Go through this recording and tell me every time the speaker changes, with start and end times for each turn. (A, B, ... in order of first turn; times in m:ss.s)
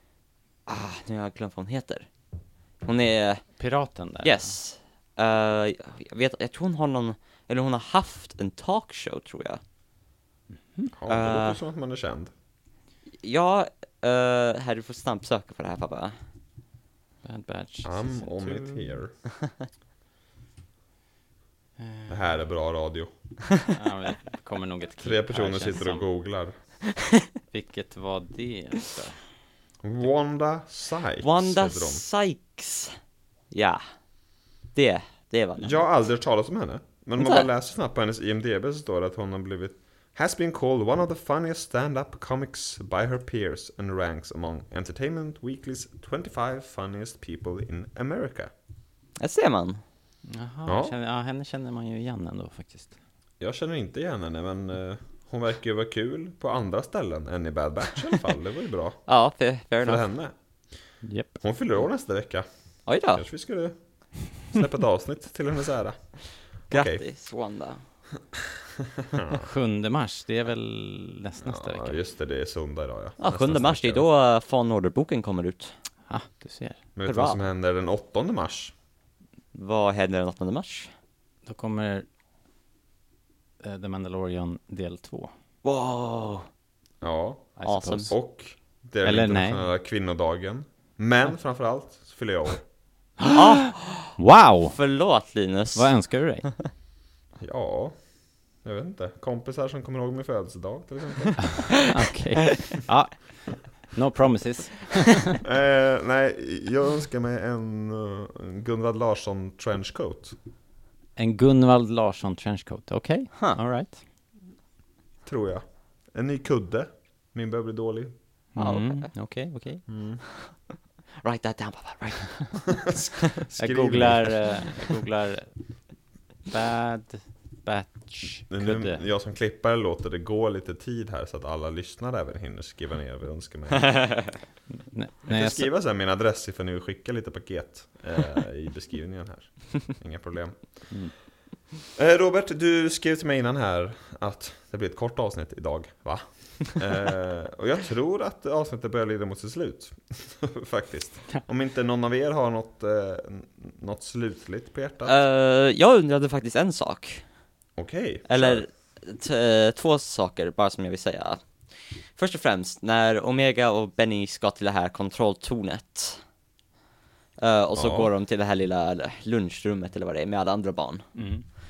0:00.7-0:02.1 A
0:02.8-0:03.5 A
0:03.6-0:04.5 B
0:04.2-0:09.6 A
0:10.9-0:12.3 C
0:11.1-0:11.6 A
0:13.2-0:16.1 A
0:17.2-0:19.0 B
0:17.8-0:19.1 C
0:21.8-0:22.2 B
0:22.1-0:23.1 C
0:23.7-0:26.0 B
0:25.0-0:26.5 C
0:27.5-0:29.2 B
0:29.8-0:32.0 C
0:31.2-0:33.0 A
0:33.5-0:33.8 A
0:34.7-0:35.8 A
0:35.6-0:48.5 C
0:37.2-0:37.5 A
0:49.2-0:49.8 A
0:50.3-0:52.9 B
0:50.6-0:50.9 C
0:53.4-0:59.0 C
0:59.1-1:00.0 A
0:59.8-1:00.3 C
1:01.0-1:01.4 B
1:01.4-1:02.4 C
1:02.8-1:03.2 A
1:03.1-1:07.0 C
1:06.7-1:07.8 A
1:09.0-1:09.4 C
1:09.3-1:12.0 B
1:11.4-1:14.0 C
1:13.2-1:15.7 A
1:16.1-1:16.8 B
1:17.0-1:18.7 C
1:17.0-1:17.4 A
1:19.5-1:20.9 A
1:21.4-1:22.0 B
1:23.6-1:25.3 B
1:25.6-1:26.5 A
1:27.0-1:32.6 C
1:27.6-1:28.1 B
1:27.6-1:28.1 A
1:29.0-1:29.6 B
1:33.3-1:34.2 A
1:34.2-1:34.8 B
1:34.7-1:35.9 A
1:35.7-1:36.5 B
1:37.4-1:37.9 C
1:38.6-1:41.6 C
1:41.4-1:45.4 B
1:45.4-1:50.4 C
1:51.2-1:54.0 B
1:55.2-1:58.1 C
1:58.5-1:59.8 B
1:58.6-1:59.1 A
1:59.9-2:00.2 C
2:01.2-2:02.9 A
2:02.8-2:04.4 C
2:03.6-2:05.5 B
2:06.5-2:09.0 B
2:08.5-2:14.3 C
2:14.9-2:15.7 B
2:15.3-2:20.9 C
2:22.0-2:35.2 C
2:35.0-2:37.2 A
2:37.8-2:38.6 C
2:38.3-2:46.2 A
2:47.4-2:51.1 A
2:47.8-2:48.1 C
2:51.1-2:51.4 B